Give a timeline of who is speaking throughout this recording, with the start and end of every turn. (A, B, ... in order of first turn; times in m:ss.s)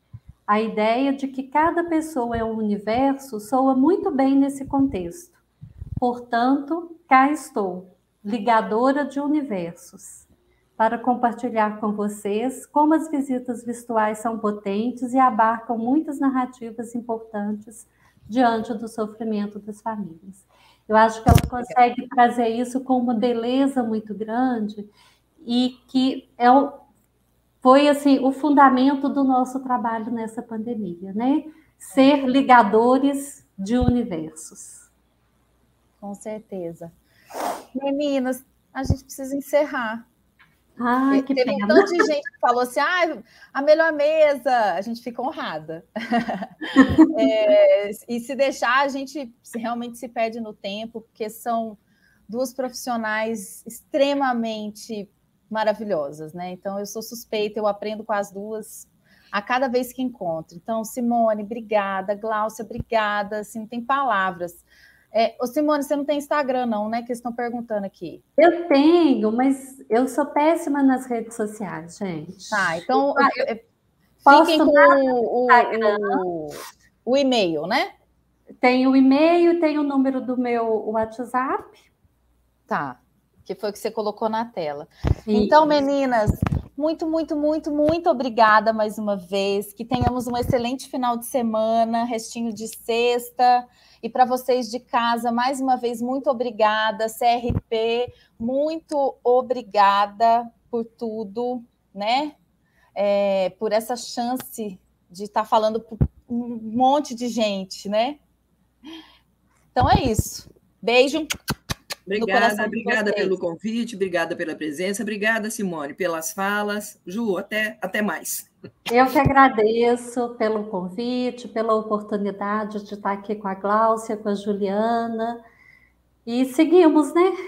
0:00.5-0:05.4 A
0:06.0-0:10.3 A
0:10.8-0:24.9 A
0:25.4-0:26.8 A
0:27.6-0:34.9 A
0:36.0-0:36.9 B
0:37.7-0:40.0 B
0:40.8-0:42.0 A
0:41.1-1:08.2 B
0:46.8-0:47.1 A
1:08.4-1:13.5 A
1:12.5-1:13.6 B
1:14.2-1:17.9 B
1:14.3-1:16.3 A
1:18.6-1:21.8 A
1:22.7-1:42.4 B
1:25.3-1:25.8 A
1:42.9-1:48.2 B
1:49.7-1:51.3 B
1:52.1-1:58.5 C
1:52.2-1:53.4 B
1:58.9-2:05.4 A
2:06.3-2:07.3 A